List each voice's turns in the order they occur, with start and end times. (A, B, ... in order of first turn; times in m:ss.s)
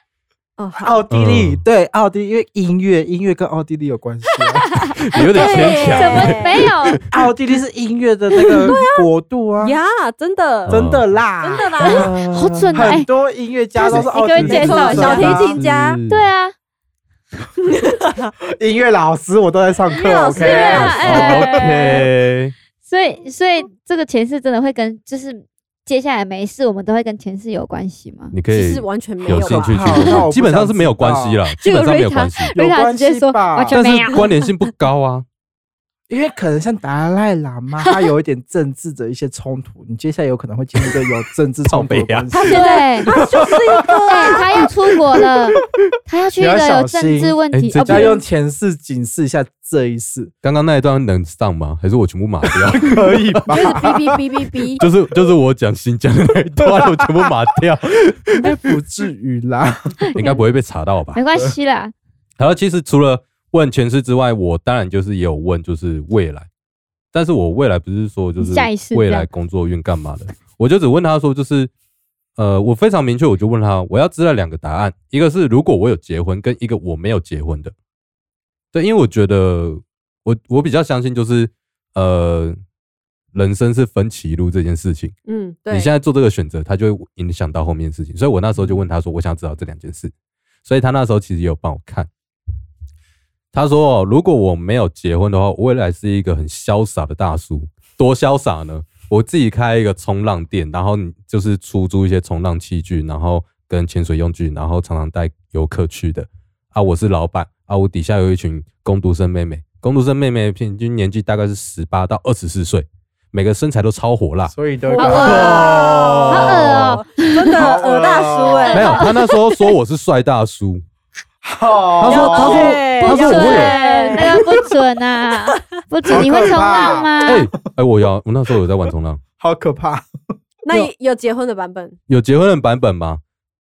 0:00.6-0:01.0 A
0:00.8-0:04.9 B
0:01.1-0:01.6 C
0:04.7-0:07.0 D
0:04.9-0:07.0 C
0:05.3-0:06.5 A
0:07.1-0:09.8 B
0:08.4-0:09.1 A
0:09.6-0:10.8 A
0:10.7-0:11.1 C
0:10.7-0:15.6 B
0:11.4-0:12.1 A
0:12.3-0:13.1 D
0:13.8-0:15.3 D
0:13.9-0:16.0 A
0:14.4-0:16.3 C
0:16.1-0:16.5 D
0:17.7-0:18.3 A
0:18.5-0:21.4 B
0:19.9-0:21.6 A
0:20.4-0:22.0 D
0:20.7-0:22.6 C
0:22.9-0:28.3 D
0:28.3-0:32.5 C
0:28.5-0:30.2 A
0:29.4-0:31.4 B
0:31.6-0:34.3 D
0:32.6-0:33.8 B
0:33.7-0:35.3 C
0:36.1-0:44.6 B
0:41.7-0:42.5 C
0:42.3-0:44.7 A
0:42.5-0:43.1 D
0:44.1-0:48.2 D
0:46.4-0:50.3 B
0:47.5-0:48.1 C
0:50.4-0:53.9 C
0:52.5-0:54.0 B
0:53.5-0:54.8 A
0:54.8-0:58.6 C
0:56.6-0:57.1 B
0:58.4-1:00.0 B
1:00.0-1:00.4 D
1:00.2-1:01.2 C
1:01.1-1:01.9 D
1:02.4-1:06.5 C
1:07.1-1:11.7 C
1:08.4-1:09.3 D
1:12.4-1:17.7 C
1:18.7-1:22.6 C
1:23.3-1:25.2 C
1:25.3-1:25.9 A
1:25.7-1:30.1 C
1:30.6-1:32.1 C
1:33.5-1:57.0 C
1:54.5-1:56.8 B
1:54.9-1:55.7 D
1:54.9-1:59.1 A
1:56.3-1:57.6 D
1:57.5-1:58.8 B
1:58.7-1:59.4 D
1:58.7-2:00.8 C
2:01.4-2:02.8 B
2:02.0-2:03.8 C
2:02.1-2:04.7 A
2:02.3-2:07.5 D
2:06.1-2:07.4 B
2:07.2-2:09.2 C
2:09.4-2:10.1 B
2:10.6-2:12.0 A
2:12.1-2:13.2 C